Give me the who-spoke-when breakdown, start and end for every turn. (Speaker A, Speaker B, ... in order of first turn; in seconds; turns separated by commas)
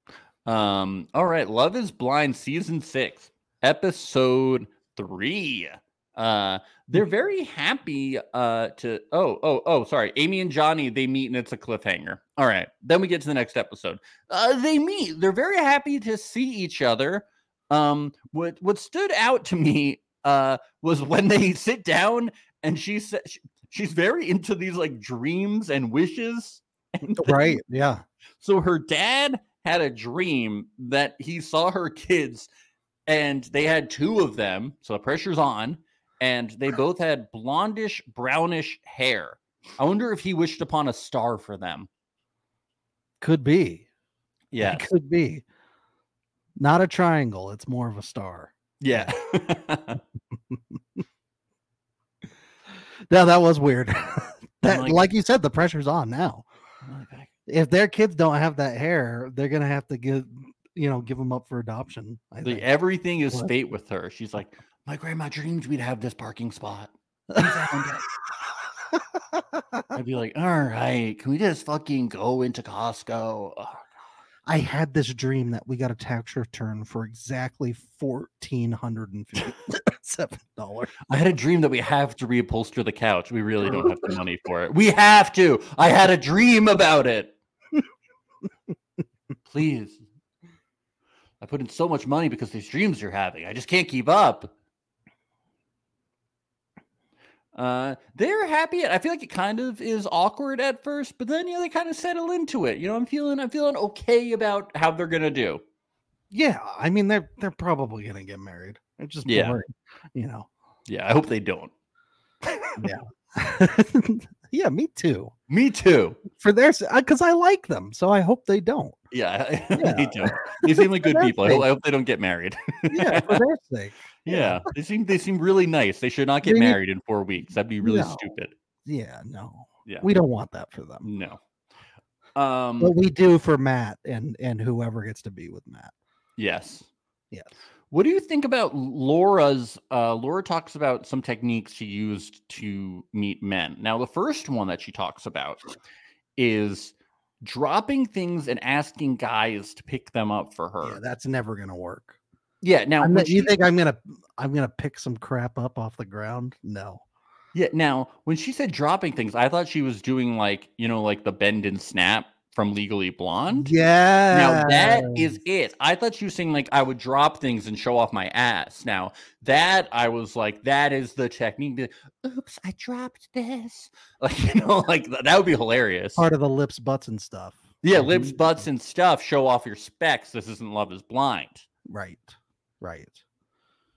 Speaker A: 0.5-27.6, Speaker B: 27.1-28.0, Speaker A: 28.4-32.5, Speaker A: 33.1-41.9, Speaker B: 43.2-43.9, Speaker A: 44.5-44.9, Speaker B: 44.6-45.4, Speaker B: 46.6-49.1, Speaker A: 48.8-50.0, Speaker B: 53.1-56.4, Speaker A: 54.6-55.1, Speaker A: 56.9-57.3, Speaker B: 57.5-62.7, Speaker A: 62.4-68.0, Speaker B: 67.4-67.8, Speaker A: 69.9-73.8, Speaker B: 74.5-81.0, Speaker A: 81.1-87.3, Speaker B: 83.6-84.1, Speaker A: 89.5-90.0, Speaker A: 91.4-94.5, Speaker A: 97.5-105.6, Speaker B: 106.3-110.5, Speaker A: 109.2-109.6, Speaker A: 110.9-111.7, Speaker A: 112.5-112.8, Speaker B: 112.8-115.3, Speaker A: 115.5-116.2, Speaker B: 116.3-119.0, Speaker A: 119.1-123.4, Speaker B: 119.8-121.7, Speaker B: 122.9-124.7, Speaker A: 124.2-128.5, Speaker B: 126.4-126.8, Speaker B: 127.8-128.2, Speaker B: 128.8-131.1, Speaker A: 131.0-131.4, Speaker A: 132.3-132.9, Speaker B: 132.8-135.9, Speaker A: 136.4-136.9, Speaker A: 137.9-145.7, Speaker A: 146.4-151.0, Speaker B: 150.8-152.2, Speaker A: 152.6-153.6, Speaker B: 153.0-157.0, Speaker A: 157.5-163.7, Speaker B: 163.5-165.3, Speaker A: 164.3-176.2, Speaker B: 176.2-178.6, Speaker A: 177.8-181.7, Speaker B: 181.9-183.2